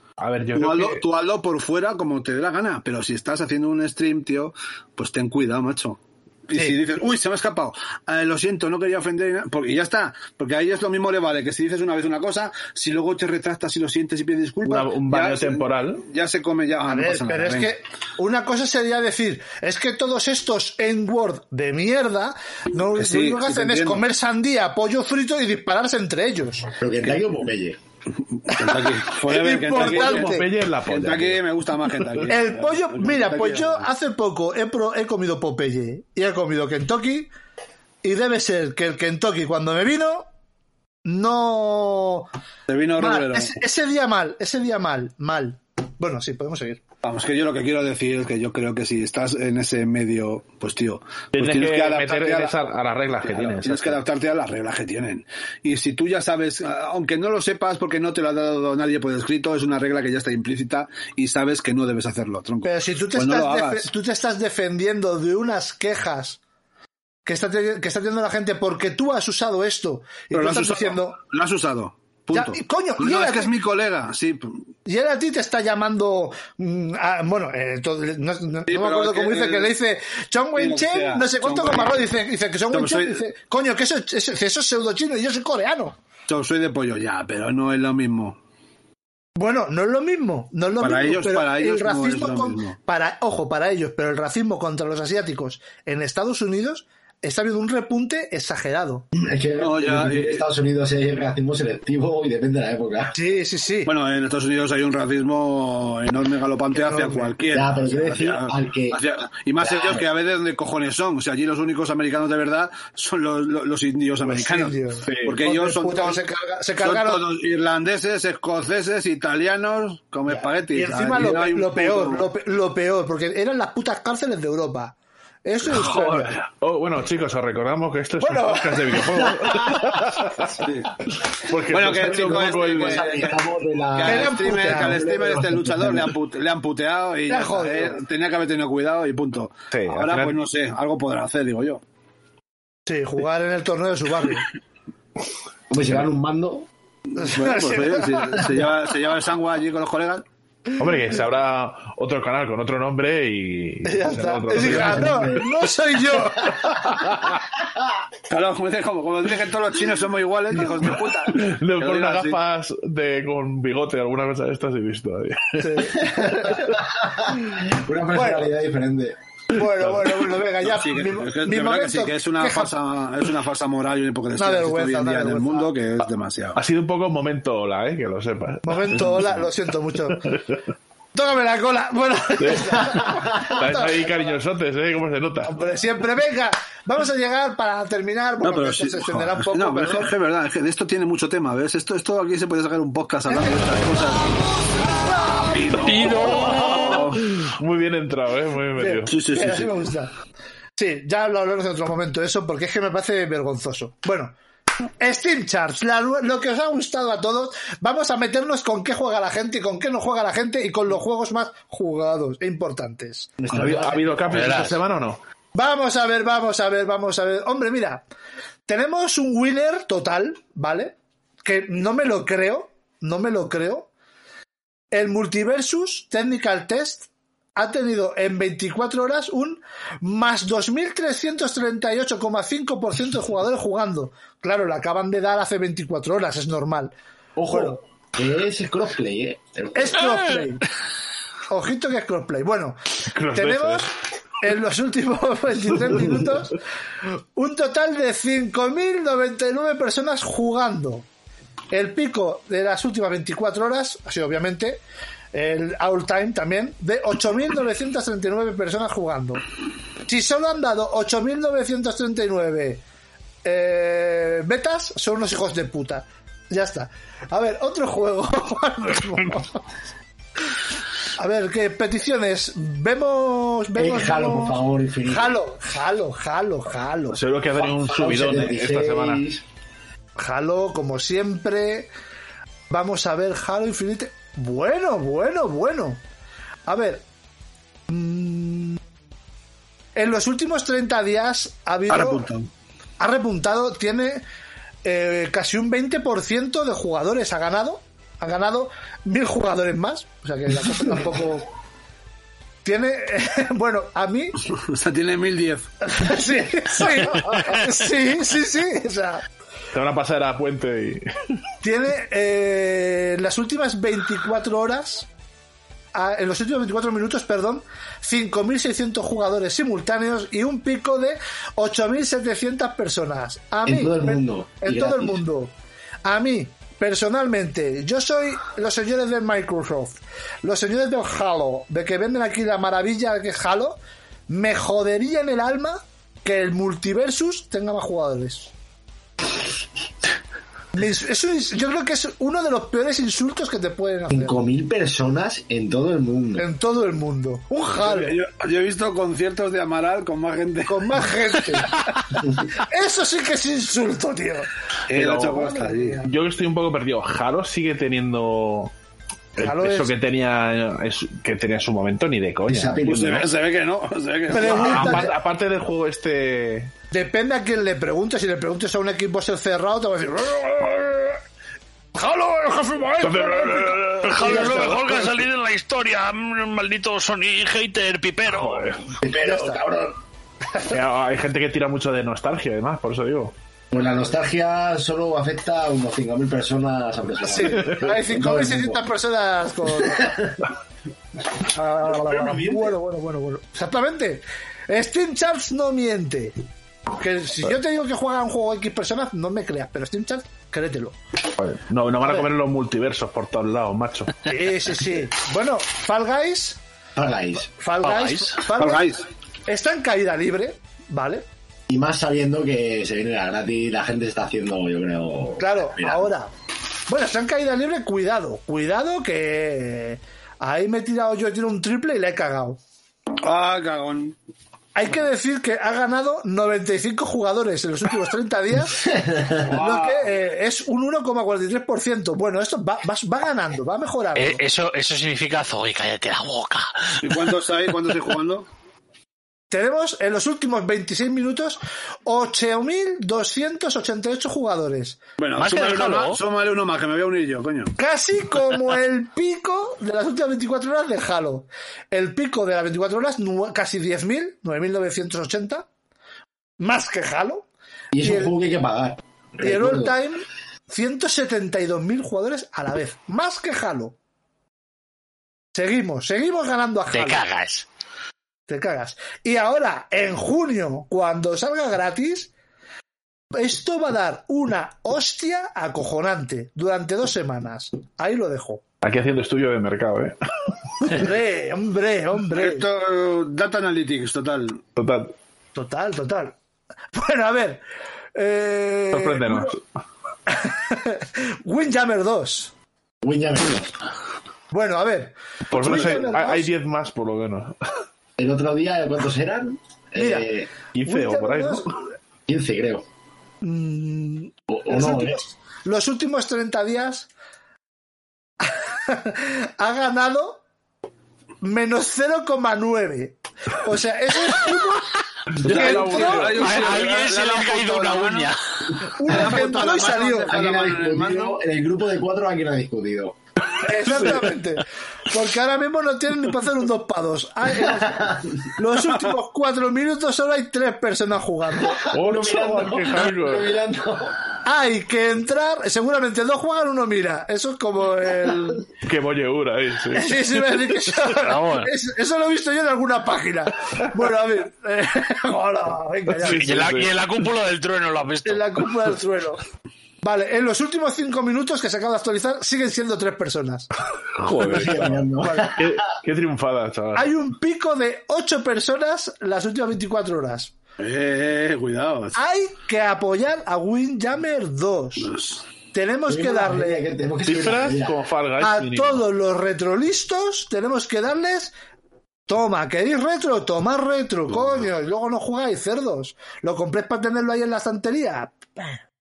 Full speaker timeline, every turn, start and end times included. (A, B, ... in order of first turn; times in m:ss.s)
0:00.2-0:01.0 A
0:00.5-0:17.8 B
0:14.6-0:16.0 A
0:16.9-0:26.7 C
0:22.9-0:24.0 B
0:26.8-0:27.8 D
0:28.4-0:33.9 B
0:28.5-0:30.5 C
0:29.8-0:31.4 A
0:32.3-0:37.3 C
0:38.0-0:40.3 C
0:41.0-0:42.3 C
0:42.7-0:43.6 B
0:43.0-0:46.8 C
0:47.0-0:52.5 B
0:51.3-0:54.0 A
0:53.2-1:03.9 B
1:02.6-1:06.4 C
1:07.2-1:11.2 C
1:10.3-1:14.6 B
1:12.3-1:13.5 C
1:14.8-1:26.0 C
1:18.7-1:19.7 B
1:20.6-1:22.1 B
1:22.7-1:23.2 B
1:26.3-1:28.4 B
1:29.4-1:39.1 C
1:30.8-1:32.8 B
1:39.1-1:43.2 D
1:39.6-1:40.4 B
1:43.1-1:43.9 C
1:43.8-1:56.2 B
1:46.7-1:47.4 C
1:47.5-1:49.0 D
1:49.6-1:50.0 D
1:54.2-1:57.2 C
1:55.0-1:55.3 A
1:56.8-2:02.2 B
2:00.3-2:06.3 C
2:05.7-2:10.6 A
2:08.2-2:09.6 C
2:10.6-2:10.9 B
2:11.3-2:13.1 A
2:11.7-2:13.4 B
2:12.1-2:16.1 D
2:13.9-2:21.8 B
2:14.0-2:15.0 C
2:17.3-2:17.9 C
2:19.7-2:20.4 A
2:22.8-2:24.5 C
2:25.7-2:26.7 D
2:27.2-2:28.4 C
2:27.2-2:30.2 B
2:30.8-2:35.2 A
2:33.8-2:36.8 C
2:34.5-2:35.5 D
2:36.8-2:37.4 A
2:38.3-2:42.4 B
2:41.3-2:45.9 A
2:45.6-2:46.8 C
2:46.0-2:49.2 D
2:48.1-2:48.5 C
2:49.5-2:52.8 C
2:50.6-2:56.6 B
2:54.4-2:55.7 C
2:56.5-2:59.4 A
2:58.6-3:00.3 C
3:00.3-3:00.6 A
3:01.1-3:04.2 C
3:02.4-3:05.5 A
3:05.4-3:10.1 C
3:08.4-3:14.4 B
3:13.3-3:13.6 C
3:15.0-3:16.8 C
3:15.5-3:17.2 B
3:15.8-3:17.1 E
3:17.2-3:19.1 A
3:18.8-3:20.1 C
3:19.1-3:19.8 B
3:20.8-3:24.3 C
3:25.0-3:33.3 C
3:33.4-3:34.6 D
3:33.5-3:35.2 A
3:34.3-3:34.7 E
3:35.5-3:38.0 C
3:38.7-3:43.9 C
3:44.9-3:56.9 C
3:57.4-3:57.8 A
3:57.4-3:57.8 C
3:58.1-4:00.3 D
3:59.7-4:00.6 C
4:01.5-4:11.0 C
4:03.0-4:03.9 A
4:11.7-4:14.8 C
4:15.3-4:19.4 C
4:20.0-4:22.8 C
4:23.4-4:29.6 C
4:31.2-4:37.2 C
4:33.8-4:35.4 D
4:37.1-4:39.2 A
4:37.6-4:39.4 D
4:40.2-4:41.9 C
4:42.7-4:46.0 C
4:46.6-4:47.0 C
4:47.9-4:48.8 C
4:49.9-4:52.3 C
4:51.9-4:52.5 B
4:53.0-4:54.2 C
4:54.8-5:01.5 C
5:02.6-5:04.4 C
5:04.5-5:05.7 B
5:05.8-5:09.2 C
5:09.7-5:11.1 A
5:11.6-5:15.1 C
5:15.9-5:25.5 C
5:23.6-5:25.2 D
5:26.0-5:38.5 C
5:40.7-5:44.4 C
5:44.1-5:46.4 D
5:46.4-5:48.2 C
5:47.7-5:51.6 B
5:50.6-5:51.8 C
5:52.4-5:54.5 C
5:54.9-5:56.0 B
5:54.9-5:55.5 A
5:55.2-5:56.1 C
5:56.0-5:58.7 A
5:59.4-6:03.2 A
5:59.4-5:59.9 C
6:02.5-6:03.3 D
6:02.8-6:05.1 B
6:04.3-6:05.2 C
6:04.4-6:06.7 A
6:06.9-6:11.2 C
6:11.9-6:15.1 C
6:13.0-6:14.8 A
6:14.0-6:18.7 E
6:18.2-6:19.0 A
6:19.0-6:20.0 D
6:19.1-6:19.6 C
6:20.6-6:23.3 A
6:23.7-6:28.8 D
6:27.2-6:30.1 C
6:29.8-6:30.4 D
6:31.4-6:36.4 C
6:36.9-6:41.0 C
6:41.4-6:44.3 A
6:42.0-6:42.3 C
6:44.2-6:46.6 C
6:47.0-6:47.5 D
6:47.5-6:48.9 C
6:47.8-6:48.4 E
6:48.6-6:49.0 B
6:49.5-6:51.2 C
6:51.7-6:56.0 D
6:55.4-6:56.3 C
6:56.9-7:02.6 C
7:03.2-7:04.2 B
7:04.7-7:08.8 C
7:08.8-7:09.4 D
7:09.4-7:10.1 B
7:09.5-7:14.4 C
7:14.2-7:17.3 E
7:17.0-7:18.5 B
7:19.5-7:25.0 C
7:25.2-7:27.7 B
7:25.3-7:26.2 E
7:27.8-7:35.6 C
7:36.6-7:37.4 C
7:37.9-7:39.9 D
7:38.0-7:38.3 C
7:39.4-7:43.9 C
7:45.5-7:47.2 C
7:46.9-7:47.7 E
7:48.5-7:52.3 C
7:53.3-7:58.6 C
7:58.8-8:01.0 A
8:00.8-8:02.6 C
8:02.3-8:04.6 B
8:04.8-8:05.1 A
8:05.5-8:06.4 C
8:06.9-8:07.6 C
8:08.1-8:09.6 C
8:08.9-8:09.6 A
8:10.3-8:12.5 C
8:13.0-8:13.7 D
8:14.5-8:16.5 C
8:15.5-8:17.6 A
8:18.2-8:20.6 D
8:19.9-8:20.3 C
8:20.7-8:21.7 A
8:20.8-8:21.8 C
8:22.3-8:22.8 D
8:23.4-8:27.1 C
8:24.5-8:25.2 D
8:28.4-8:30.4 C
8:31.4-8:34.9 C
8:35.3-8:36.6 A
8:35.4-8:36.7 C
8:35.4-8:41.4 B
8:36.4-8:38.4 E
8:38.9-8:40.4 C
8:40.2-8:43.2 D
8:43.6-8:51.8 C
8:47.6-8:48.4 D
8:51.7-8:54.2 D
8:51.9-8:53.6 A
8:54.4-8:58.7 C
8:58.8-9:00.6 A
8:59.9-9:06.7 C
9:01.2-9:01.7 E
9:06.1-9:06.9 A
9:06.2-9:08.6 E
9:08.2-9:09.4 C
9:10.0-9:13.7 C
9:14.1-9:17.1 A
9:14.3-9:15.8 D
9:15.2-9:15.6 C
9:16.9-9:20.5 C
9:20.8-9:22.2 B
9:22.1-9:25.1 C
9:25.0-9:25.4 B
9:25.7-9:26.8 C
9:26.1-9:28.0 D
9:27.2-9:29.0 A
9:28.4-9:31.5 C
9:32.3-9:38.8 C